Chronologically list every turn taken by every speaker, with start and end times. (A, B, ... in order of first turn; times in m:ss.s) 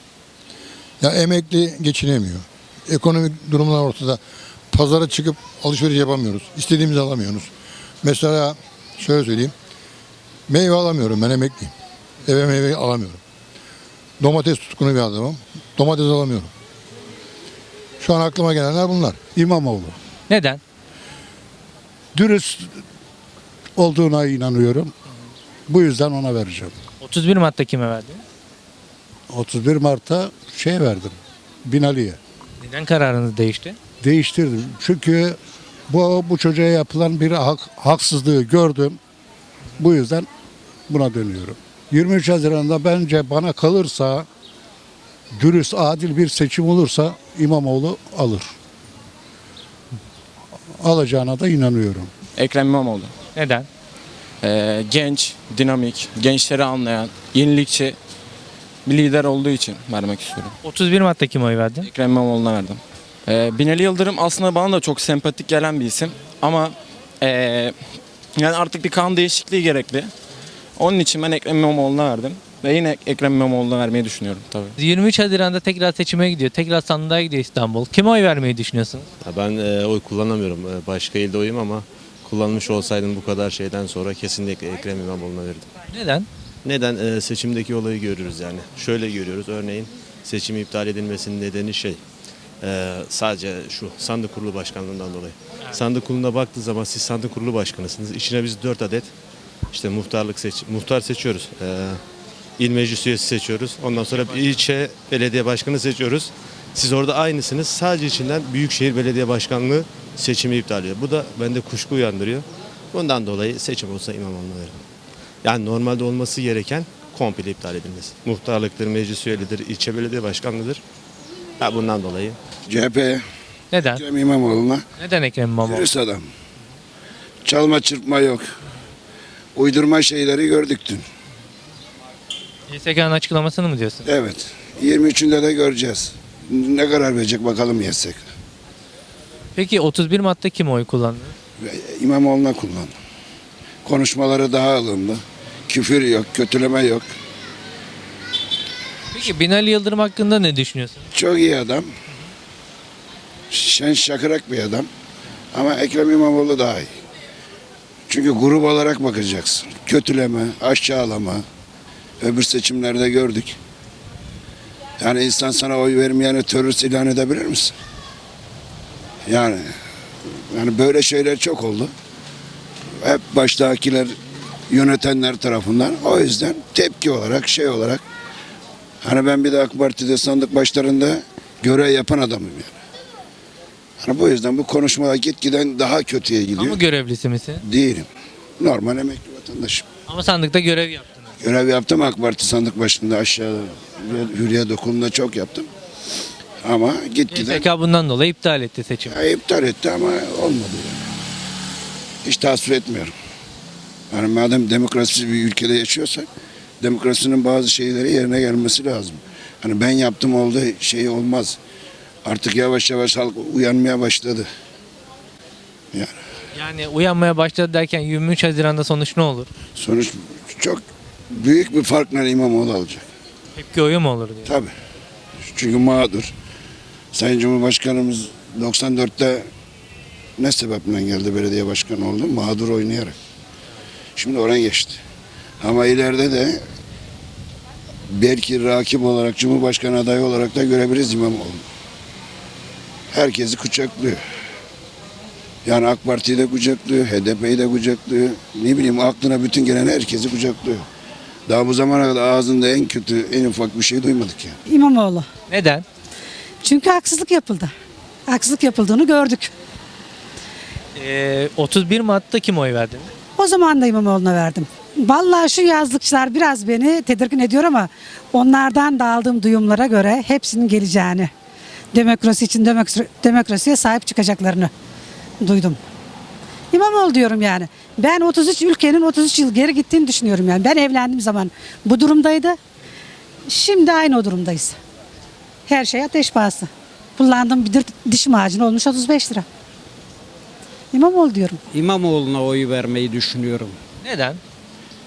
0:01.0-0:07.5 A
0:08.0-0:09.5 A
0:10.5-0:11.7 A
0:12.2-0:13.2 A
0:14.2-0:16.5 A
0:18.0-0:19.2 A
0:19.3-0:20.0 B
0:20.3-0:20.6 C
0:22.1-0:22.8 B
0:23.8-0:24.9 B
0:25.7-0:26.7 B
0:27.0-0:28.2 C
0:29.3-0:32.2 B
0:32.6-0:33.8 C
0:34.0-0:35.4 B
0:35.9-0:39.0 B
0:39.8-0:40.3 B
0:40.9-0:44.3 B
0:45.4-0:48.5 B
0:50.8-0:52.1 B
0:52.3-0:53.1 D
0:53.3-0:53.6 C
0:54.4-0:58.0 D
0:58.8-1:00.6 D
1:00.6-1:01.9 C
1:01.8-1:10.1 D
1:10.8-1:14.7 D
1:14.8-1:19.1 C
1:19.2-1:25.7 E
1:25.9-1:26.3 C
1:26.6-1:32.0 E
1:32.6-1:39.1 E
1:39.7-1:42.0 E
1:42.6-1:54.8 E
1:44.1-1:44.4 C
1:55.4-2:00.8 E
2:01.6-2:02.4 E
2:02.7-2:03.2 F
2:03.7-2:04.0 C
2:03.8-2:04.8 F
2:05.0-2:05.9 C
2:05.6-2:06.2 F
2:07.4-2:08.4 F
2:09.6-2:11.0 F
2:12.7-2:14.1 C
2:14.0-2:18.2 F
2:19.5-2:21.3 C
2:21.6-2:22.9 F
2:23.8-2:27.1 F
2:29.1-2:31.1 C
2:31.1-2:31.9 F
2:33.5-2:34.9 F
2:35.5-2:36.9 F
2:38.1-2:41.4 F
2:42.2-2:43.6 F
2:45.0-2:47.7 F
2:49.3-2:49.7 F
2:50.5-2:51.9 F
2:53.0-2:54.1 F
2:54.7-2:58.0 F
2:59.0-3:02.8 F
3:04.0-3:06.8 F
3:06.6-3:07.6 C
3:07.6-3:08.1 F
3:08.6-3:09.9 F
3:10.1-3:11.3 C
3:11.4-3:15.7 F
3:16.6-3:17.6 F
3:17.3-3:19.2 C
3:19.1-3:21.1 F
3:22.2-3:23.1 F
3:24.1-3:26.3 F
3:26.8-3:31.6 F
3:32.2-3:34.5 F
3:36.5-3:39.5 C
3:39.8-3:43.1 F
3:43.5-3:44.5 C
3:44.4-3:44.7 F
3:45.5-3:46.3 F
3:47.1-3:49.4 F
3:50.4-3:53.1 F
3:54.2-3:55.0 F
3:55.6-3:56.6 F
3:58.1-4:01.6 F
4:03.1-4:04.2 F
4:05.6-4:10.8 F
4:11.5-4:14.6 F
4:14.7-4:15.3 G
4:15.5-4:15.8 C
4:16.6-4:17.7 G
4:18.3-4:19.5 G
4:21.0-4:23.1 C
4:23.4-4:31.3 G
4:31.9-4:34.7 G
4:35.4-4:35.8 G
4:36.7-4:42.6 G
4:43.5-4:44.8 G
4:45.7-4:49.4 G
4:50.9-4:51.6 G
4:51.7-4:53.8 H
4:54.0-4:54.4 C